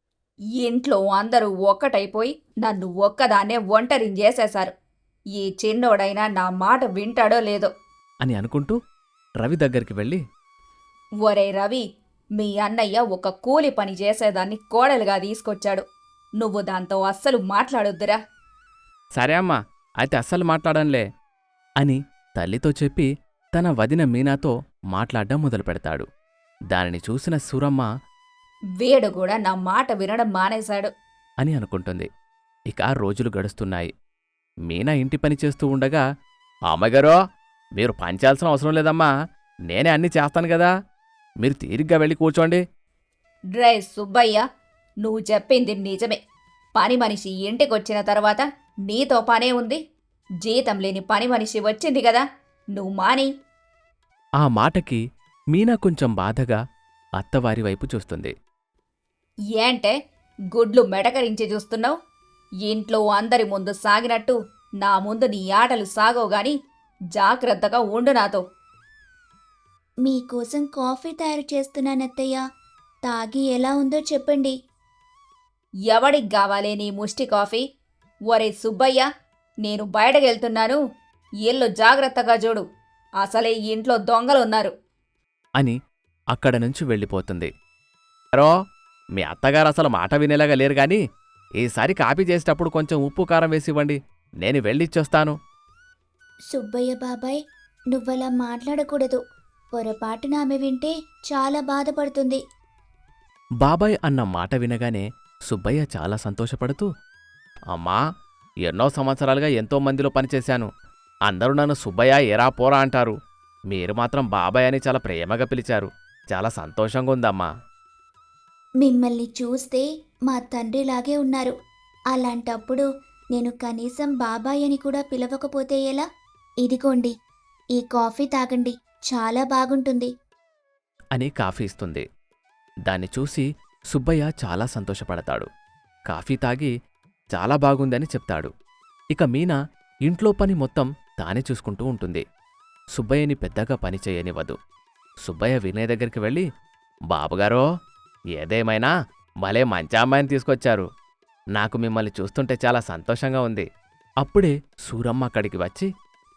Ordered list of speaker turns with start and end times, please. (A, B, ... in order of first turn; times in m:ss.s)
0:00.6-0:04.7 A
0:05.4-0:07.7 A
0:08.2-0:08.8 B
0:09.4-0:10.2 B
0:11.2-0:15.8 A
0:16.4-0:18.2 A
0:19.2-0:21.1 B
0:21.8-0:26.1 B
0:26.7-0:27.9 B
0:28.8-0:30.9 A
0:31.4-0:32.1 B
0:32.7-0:33.9 B
0:34.7-0:36.0 B
0:36.7-0:37.2 B
0:37.8-0:39.1 B
0:39.7-0:40.7 B
0:41.4-0:42.6 B
0:43.6-0:44.4 A
0:45.0-0:46.2 A
0:46.8-0:49.8 A
0:50.4-0:53.3 A
0:54.4-0:56.6 B
0:57.2-0:58.3 B
0:59.6-0:59.9 A
1:00.5-1:02.0 A
1:02.6-1:06.6 A
1:07.2-1:08.4 A
1:10.0-1:12.4 C
1:13.0-1:14.5 C
1:15.9-1:17.6 A
1:18.3-1:19.1 A
1:19.6-1:20.8 A
1:21.4-1:22.6 A
1:23.2-1:24.7 A
1:26.3-1:27.5 B
1:29.2-1:31.0 B
1:31.6-1:35.4 B
1:36.5-1:37.4 C
1:37.9-1:39.2 C
1:39.8-1:42.4 C
1:43.6-1:46.9 B
1:47.7-1:48.0 B
1:48.6-1:50.7 B
1:51.3-1:53.2 B
1:53.7-1:57.5 B
1:58.8-2:01.5 C
2:02.1-2:06.0 C
2:06.6-2:07.1 C
2:07.8-2:10.1 C
2:11.1-2:12.0 B
2:12.9-2:15.5 B
2:16.1-2:16.7 B
2:17.3-2:18.5 B
2:19.1-2:22.2 B
2:23.0-2:24.6 B
2:25.2-2:26.5 B
2:27.1-2:27.7 B
2:28.4-2:28.9 B
2:29.4-2:30.9 B
2:31.6-2:33.7 B
2:34.2-2:35.9 B